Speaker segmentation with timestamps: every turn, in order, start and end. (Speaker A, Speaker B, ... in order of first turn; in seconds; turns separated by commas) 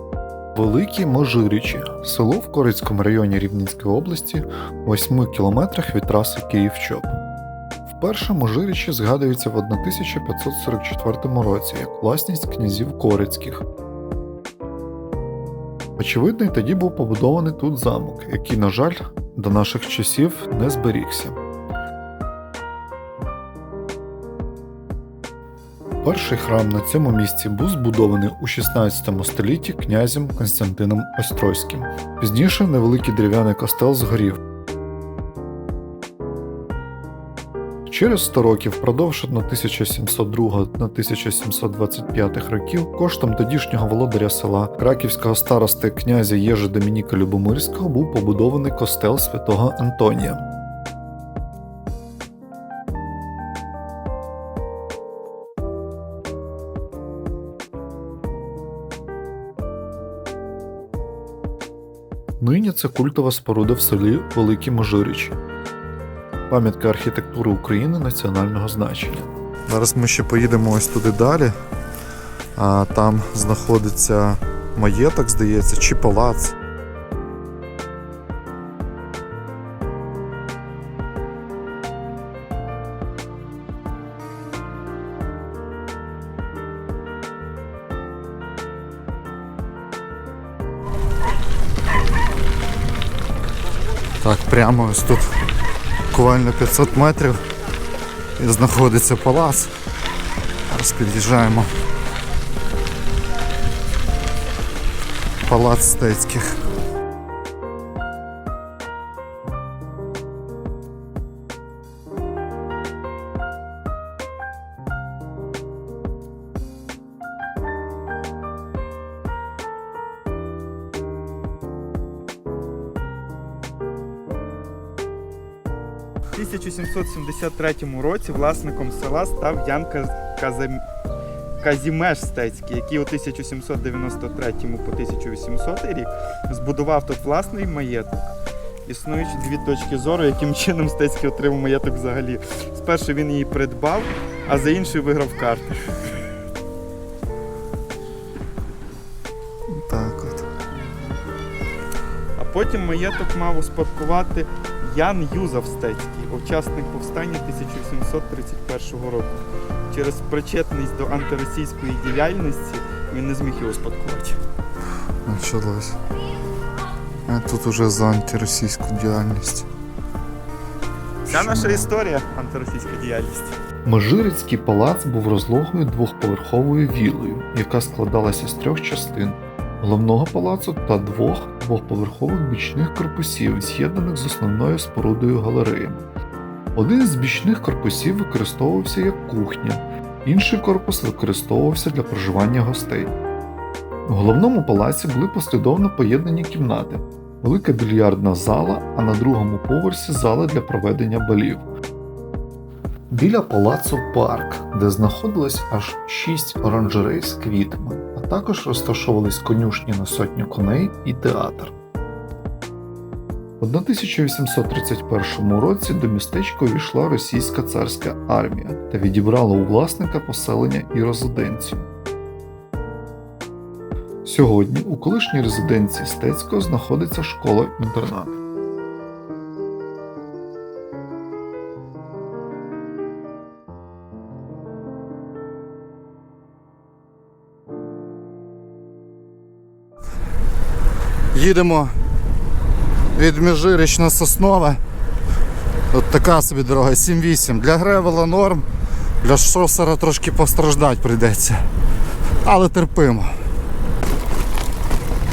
Speaker A: 0.6-7.1, Speaker A: 8.0-13.6, Speaker A: 16.0-21.4, Speaker A: 26.0-34.4, Speaker A: 37.9-50.4, Speaker A: 62.4-65.4, Speaker A: 66.5-69.3, Speaker B: 69.7-71.5, Speaker B: 72.5-76.5, Speaker B: 94.2-95.3, Speaker B: 96.1-97.4, Speaker B: 98.4-99.7, Speaker B: 100.7-101.7, Speaker B: 105.4-106.5, Speaker C: 126.3-130.8, Speaker C: 131.6-138.3, Speaker C: 138.9-146.2, Speaker B: 149.7-150.4, Speaker C: 150.7-151.2, Speaker C: 152.4-164.4, Speaker B: 165.2-166.0, Speaker B: 167.3-169.7, Speaker C: 171.3-173.6, Speaker B: 171.3-171.9, Speaker A: 173.8-186.1, Speaker A: 186.8-193.1, Speaker A: 194.1-201.6, Speaker A: 203.1-211.7, Speaker A: 213.6-221.9, Speaker A: 224.2-228.4, Speaker B: 241.3-241.9, Speaker B: 243.1-244.8, Speaker B: 245.9-248.7, Speaker B: 249.2-251.6, Speaker B: 252.4-253.3